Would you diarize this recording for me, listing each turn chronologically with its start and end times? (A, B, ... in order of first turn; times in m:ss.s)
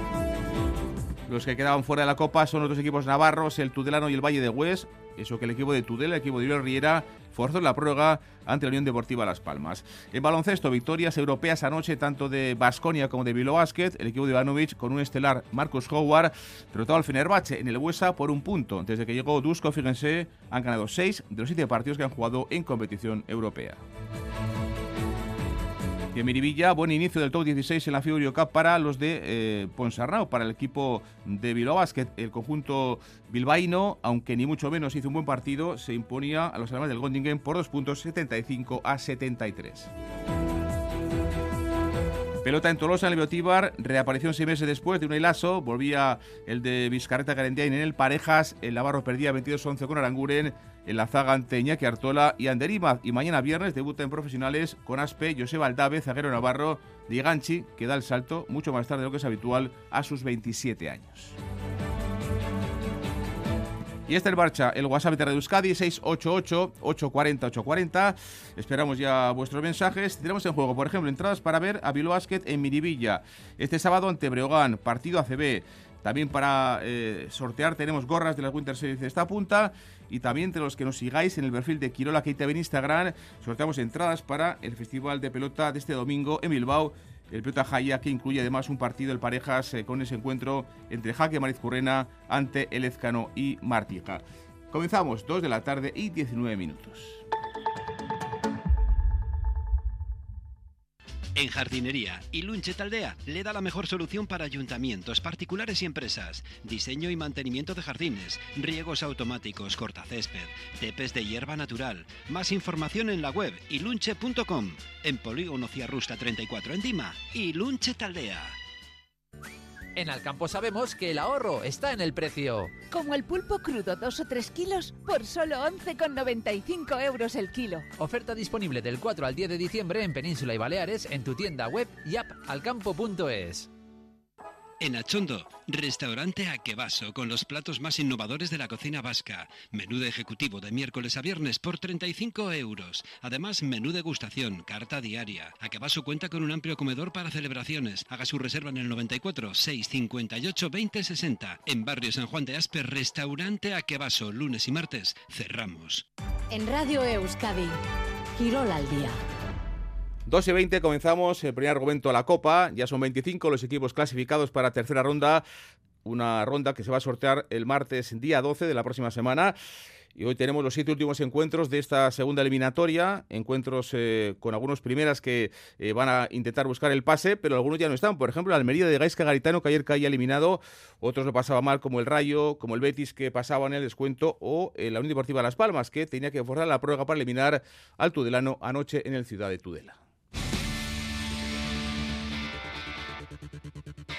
0:01.3-0:23.8 A
0:26.1-0:39.9 A
0:42.4-1:01.4 A
1:04.1-1:37.2 A
1:41.3-1:58.6 B
1:59.9-2:02.8 C
2:02.9-2:07.8 D
2:08.0-2:13.7 C
2:14.8-2:36.0 B
2:36.5-2:37.8 E
2:38.4-2:39.2 E
2:40.3-2:45.4 A
2:46.0-2:49.5 A
2:50.1-3:10.0 A